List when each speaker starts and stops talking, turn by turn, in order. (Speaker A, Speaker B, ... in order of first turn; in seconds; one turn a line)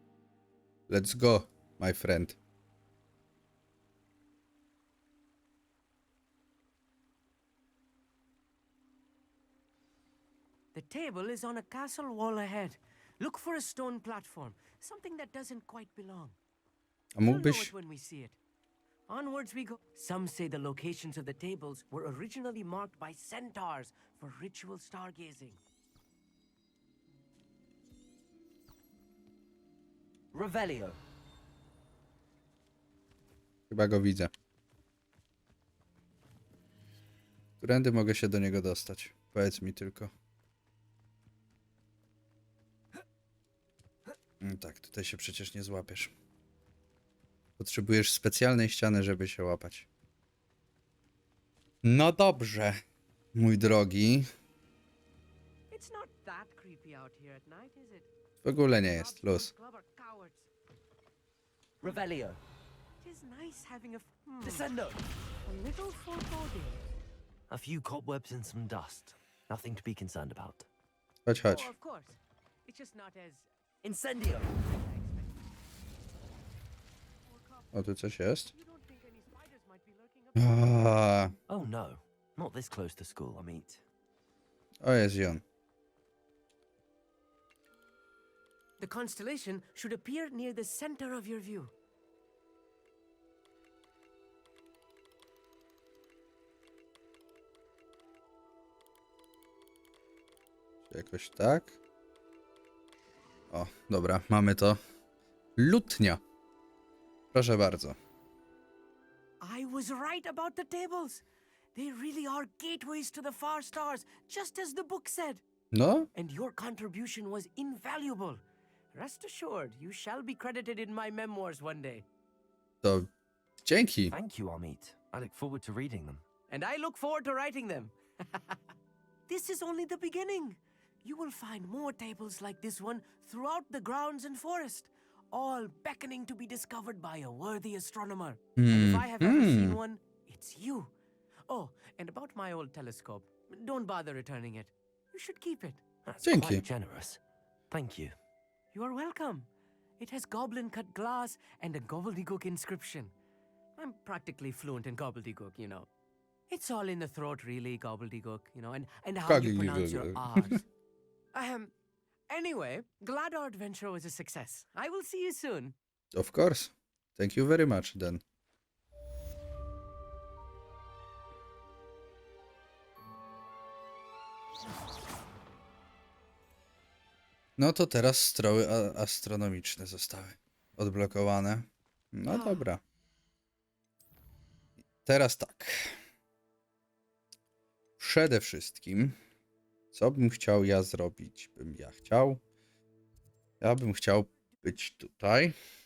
Speaker A: 0.9-2.4
Speaker B: 10.7-16.4
Speaker A: 17.2-17.7
Speaker B: 17.2-18.4
Speaker B: 19.1-25.6
Speaker C: 30.3-31.0
Speaker A: 33.7-34.3
Speaker A: 37.6-40.1
Speaker A: 44.4-46.1
Speaker A: 47.6-49.9
Speaker A: 51.8-52.8
Speaker A: 53.4-54.3
Speaker B: 55.7-58.1
Speaker A: 58.4-59.5
Speaker B: 58.9-60.5
Speaker C: 61.8-62.4
Speaker B: 63.0-64.7
Speaker C: 64.4-65.0
Speaker B: 65.5-66.8
Speaker C: 67.5-70.7
Speaker A: 71.3-71.7
Speaker B: 71.4-73.5
Speaker C: 73.8-74.5
Speaker B: 74.6-75.4
Speaker B: 77.2-77.7
Speaker A: 77.7-78.5
Speaker B: 78.5-81.0
Speaker A: 80.4-81.3
Speaker C: 81.5-83.8
Speaker A: 84.8-85.4
Speaker B: 88.8-91.7
Speaker A: 100.9-101.8
Speaker A: 103.5-104.8
Speaker A: 105.6-106.2
Speaker A: 107.3-108.0
Speaker B: 109.4-111.2
Speaker B: 111.8-115.4
Speaker A: 115.7-116.1
Speaker B: 116.2-118.4
Speaker B: 118.9-122.0
Speaker A: 122.8-123.1
Speaker A: 123.6-124.1
Speaker C: 124.1-126.2
Speaker B: 126.5-128.6
Speaker B: 129.3-140.9
Speaker A: 138.6-139.8
Speaker B: 141.5-145.8
Speaker C: 146.1-148.1
Speaker A: 146.2-146.6
Speaker B: 148.7-149.5
Speaker B: 150.0-153.1
Speaker B: 153.8-155.9
Speaker B: 156.5-160.6
Speaker A: 159.3-160.5
Speaker B: 161.3-161.7
Speaker B: 162.3-165.8
Speaker A: 166.2-168.2
Speaker A: 177.6-182.8
Speaker B: 182.3-182.7
Speaker A: 185.1-185.9
Speaker A: 188.0-189.2
Speaker A: 189.9-192.4
Speaker A: 193.6-195.6